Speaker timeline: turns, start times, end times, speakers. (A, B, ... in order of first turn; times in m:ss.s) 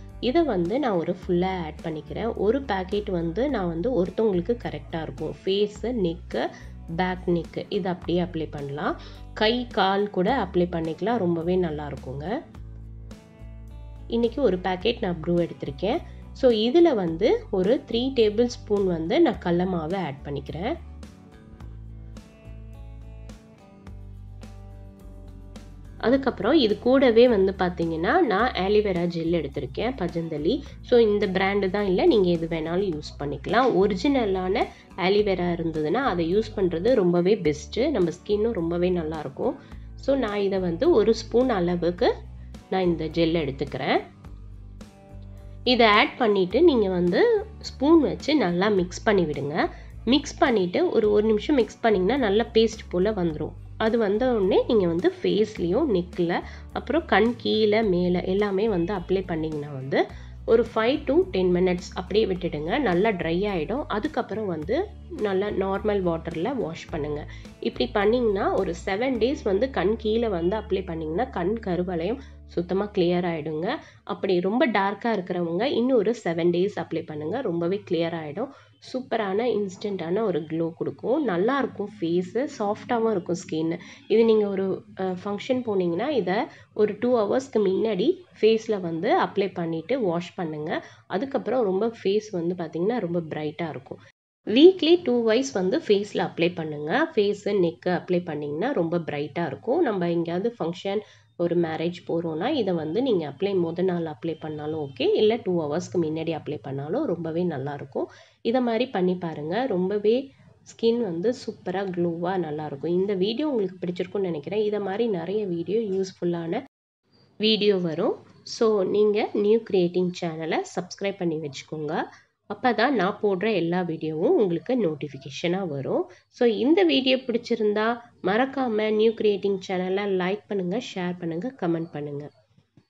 0:00.3-0:06.4 A
0:07.0-0:12.3 A
0:14.1-0:20.7 A
0:26.0-0:42.1 A
0:42.7-0:44.0 A
0:45.7-1:34.0 A
1:34.5-1:56.6 A
1:57.4-2:02.0 A
2:02.5-2:12.3 A